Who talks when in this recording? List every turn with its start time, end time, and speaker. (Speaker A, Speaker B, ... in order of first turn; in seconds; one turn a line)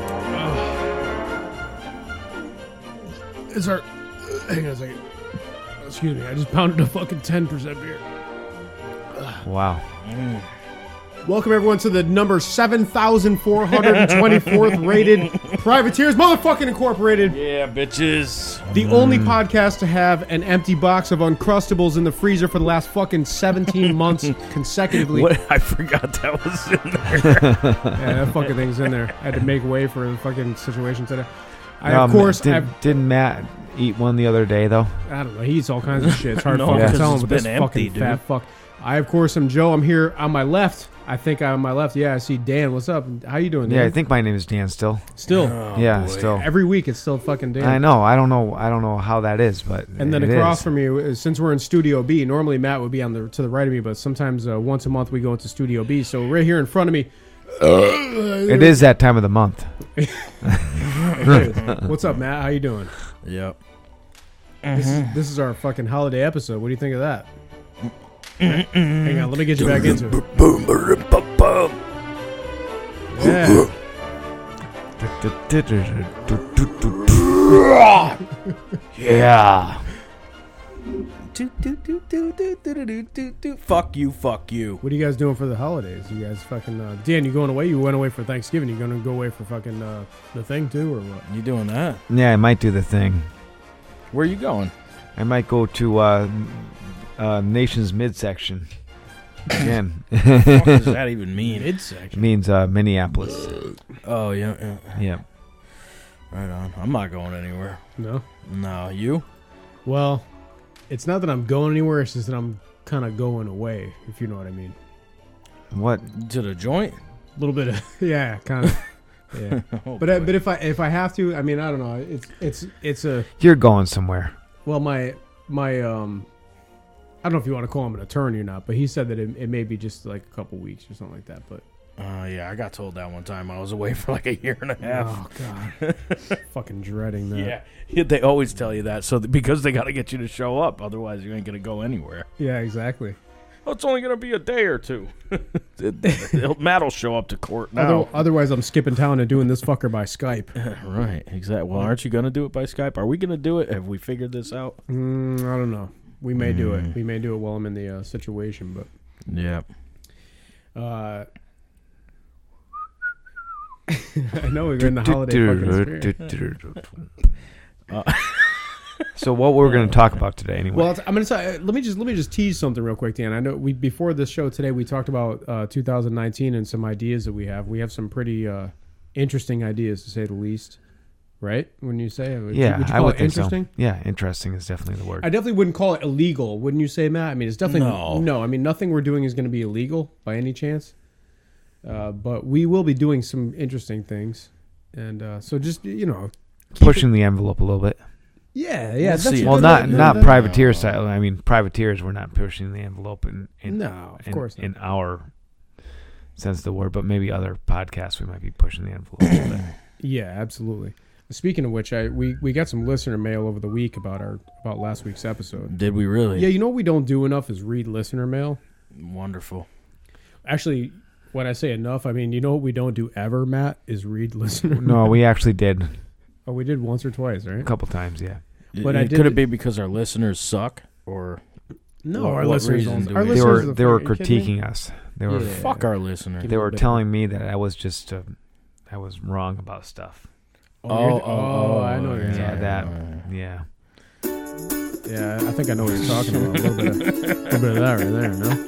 Speaker A: 0.3-0.8
Speaker A: 3.5-5.0
Speaker A: 5.8-8.0
Speaker B: 9.4-9.8
Speaker C: 10.0-10.5
Speaker A: 11.2-17.4
Speaker C: 13.7-15.5
Speaker C: 17.3-18.6
Speaker A: 18.7-25.3
Speaker B: 18.7-19.4
Speaker C: 23.9-24.2
Speaker C: 24.9-28.9
Speaker B: 27.3-27.9
Speaker A: 27.9-31.3
Speaker A: 31.8-32.7
Speaker B: 31.8-35.0
Speaker A: 35.1-43.9
Speaker C: 36.0-38.2
Speaker B: 36.7-37.0
Speaker B: 43.6-45.1
Speaker A: 45.1-45.6
Speaker C: 45.3-46.4
Speaker B: 45.7-46.5
Speaker A: 46.2-47.8
Speaker B: 47.6-50.6
Speaker A: 50.0-58.8
Speaker B: 58.5-59.7
Speaker A: 60.0-60.4
Speaker B: 60.4-61.8
Speaker A: 61.0-62.9
Speaker C: 63.2-63.6
Speaker C: 64.6-65.1
Speaker A: 64.7-67.3
Speaker C: 68.4-71.8
Speaker A: 68.4-70.2
Speaker A: 73.1-73.7
Speaker C: 73.2-73.7
Speaker B: 75.0-77.6
Speaker C: 77.3-78.2
Speaker C: 78.9-79.8
Speaker C: 81.3-84.8
Speaker A: 84.8-91.2
Speaker C: 91.2-92.0
Speaker B: 92.1-93.3
Speaker C: 94.1-94.7
Speaker B: 95.2-98.7
Speaker B: 99.5-101.0
Speaker C: 100.3-101.9
Speaker A: 101.4-102.2
Speaker B: 102.1-103.6
Speaker C: 104.0-105.0
Speaker B: 104.9-105.2
Speaker C: 106.3-107.8
Speaker A: 108.0-108.2
Speaker C: 108.5-109.2
Speaker A: 109.8-110.2
Speaker A: 110.9-114.8
Speaker B: 115.7-116.1
Speaker C: 116.1-117.0
Speaker A: 117.4-123.3
Speaker C: 119.5-120.3
Speaker B: 123.4-124.3
Speaker A: 124.6-126.3
Speaker A: 127.2-131.6
Speaker C: 132.0-135.2
Speaker A: 134.8-135.8
Speaker C: 135.8-136.4
Speaker A: 136.4-137.5
Speaker C: 137.3-142.3
Speaker A: 142.4-143.2
Speaker C: 143.7-148.2
Speaker A: 146.1-146.4
Speaker A: 147.8-150.5
Speaker C: 150.6-154.8
Speaker A: 154.9-158.9
Speaker C: 156.4-156.9
Speaker C: 159.3-159.6
Speaker A: 160.7-161.3
Speaker A: 163.9-166.1
Speaker B: 164.8-167.0
Speaker C: 167.9-169.0
Speaker B: 169.2-170.9
Speaker A: 170.7-180.8
Speaker A: 181.4-183.7
Speaker B: 182.5-185.3
Speaker A: 185.2-190.9
Speaker C: 187.7-188.3
Speaker A: 191.8-197.1
Speaker B: 196.8-198.0
Speaker A: 198.5-200.4
Speaker C: 199.0-201.0
Speaker B: 199.4-205.3
Speaker A: 203.7-204.7
Speaker B: 206.4-209.6
Speaker A: 210.0-215.7
Speaker C: 215.7-216.5
Speaker A: 216.3-218.6
Speaker C: 218.9-219.7
Speaker A: 220.4-225.2
Speaker B: 224.8-225.9
Speaker A: 226.5-227.7
Speaker B: 227.6-228.4
Speaker C: 228.7-231.4
Speaker A: 228.8-229.4
Speaker A: 232.0-234.5
Speaker C: 232.1-233.7
Speaker B: 233.3-235.8
Speaker A: 235.3-235.8
Speaker C: 235.4-236.4
Speaker A: 236.4-237.0
Speaker B: 236.4-238.3
Speaker B: 238.9-240.3
Speaker A: 240.8-242.6
Speaker C: 240.9-243.2
Speaker B: 242.3-243.7
Speaker A: 245.0-248.6
Speaker C: 246.0-247.6